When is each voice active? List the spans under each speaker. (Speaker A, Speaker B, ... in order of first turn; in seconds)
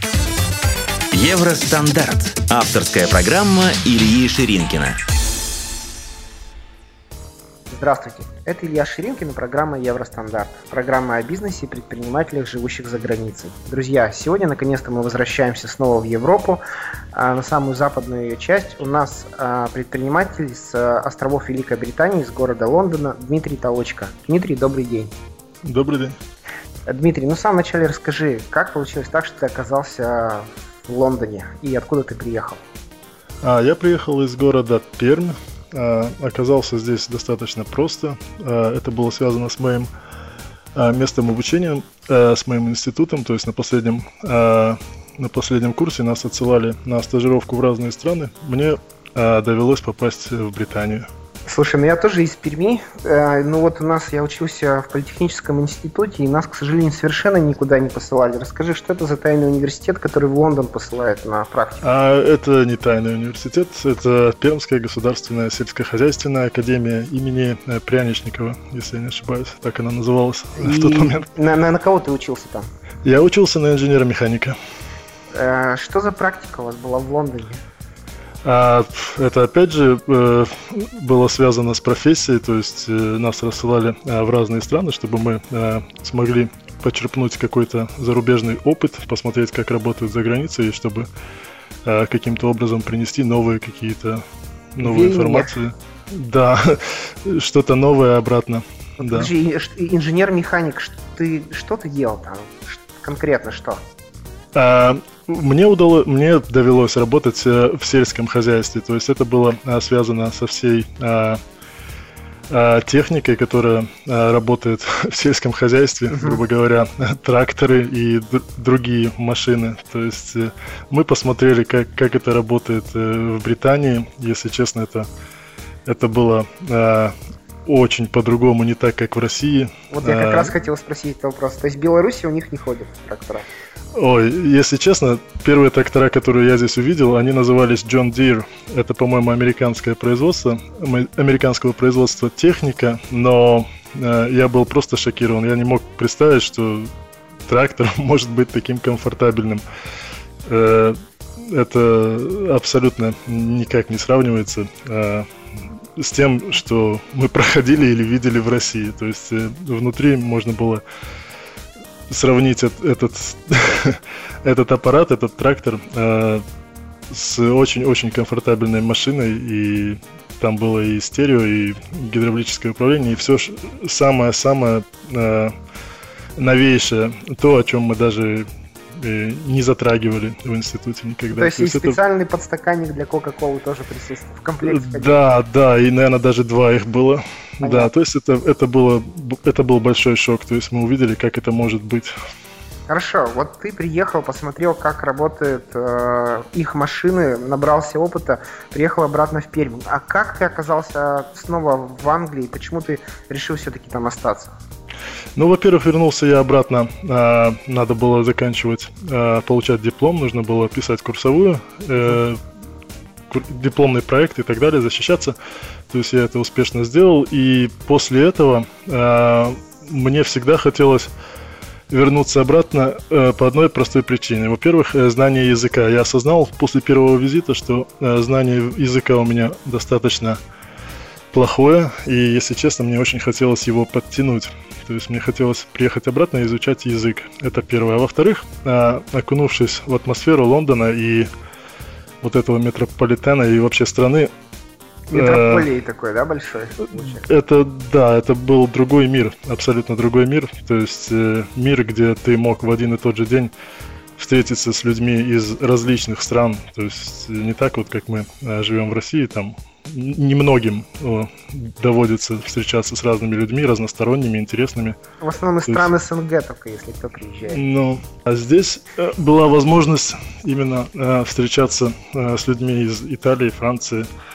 Speaker A: 1.1-5.0
Speaker B: 7.7-16.6, 17.1-25.1, 26.9-32.6, 51.5-61.8, 70.6-72.7, 75.3-77.6, 94.8-95.5, 99.0-103.8, 116.1-116.4, 129.9-133.5, 181.3-185.1, 187.6-187.9, 192.9-204.6, 245.1-247.2, 265.2-267.6
Speaker C: 25.6-26.2, 33.4-39.9, 40.7-51.1, 61.8-71.3, 73.0-74.6, 78.4-91.1, 91.8-94.2, 94.7-99.3, 104.5-111.4, 112.5-125.1, 125.8-130.5, 133.9-146.9, 147.5-149.6, 150.4-155.3, 155.9-160.8, 162.1-166.4, 167.1-175.5, 176.4-182.0, 184.6-192.1, 205.3-212.4, 213.3-215.3, 215.9-221.1, 221.9-230.4, 231.3-241.3, 242.2-244.3, 245.1-245.7, 247.0-253.5, 254.2-265.0, 267.5-274.1